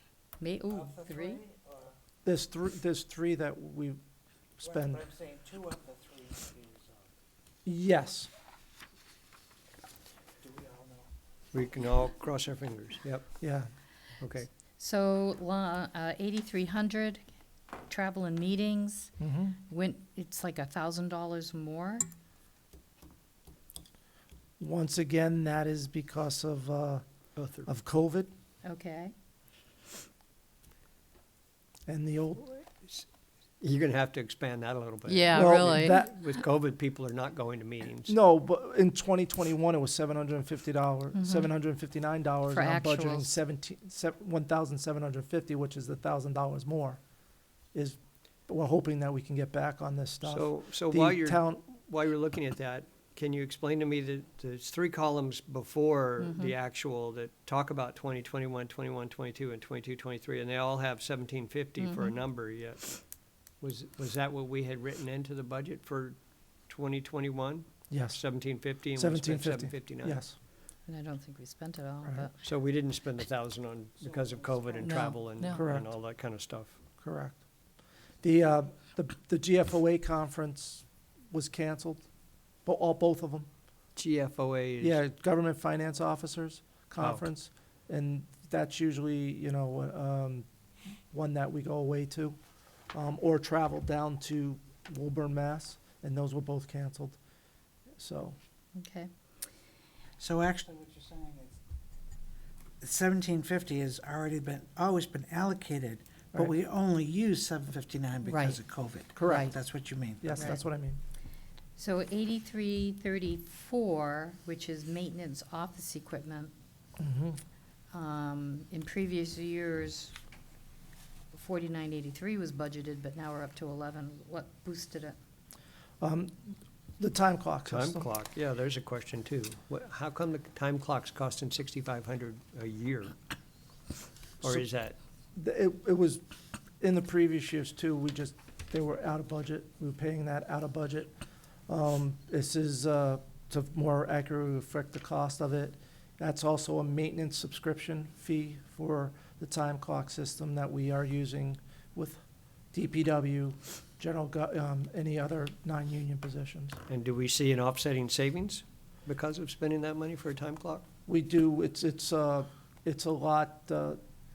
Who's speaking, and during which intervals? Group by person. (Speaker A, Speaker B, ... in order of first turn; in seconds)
Speaker A: 0.4-1.4, 14.8-17.2, 17.9-19.1, 19.7-22.0, 28.6-29.1, 35.1-36.0, 41.2-41.5, 42.5-43.3, 56.2-56.5, 61.8-62.1, 70.9-72.4, 74.8-75.6, 98.8-99.1, 108.2-108.6, 109.2-109.5, 110.4-110.6, 111.8-116.5, 117.9-120.2, 121.3-125.2
Speaker B: 0.7-1.9, 4.6-7.1, 10.4-11.1, 74.5-75.1, 100.2-101.6, 102.8-110.4
Speaker C: 2.2-4.0, 4.6-5.0, 7.7-8.3, 13.4-13.7, 19.2-19.6, 24.6-27.0, 27.6-28.3, 31.9-32.7, 35.3-36.2, 38.1-47.0, 47.7-51.6, 67.9-68.2, 68.9-70.4, 75.5-75.9, 77.0-77.4, 78.2-82.0, 82.6-83.5, 84.8-90.5, 91.1-92.4, 92.9-97.2, 98.0-98.4, 109.1-109.5, 110.2-111.0, 117.0-117.4, 126.0-128.1, 135.3-136.2, 136.8-141.1, 141.7-152.2, 152.7-156.8, 161.1-164.0
Speaker D: 11.5-13.3, 14.2-14.5, 27.4-27.7, 33.6-38.1, 50.2-63.0, 63.6-66.2, 66.7-70.2, 72.4-76.8, 84.0-85.0, 87.0-87.3, 127.7-133.2, 134.4-135.0, 156.9-160.8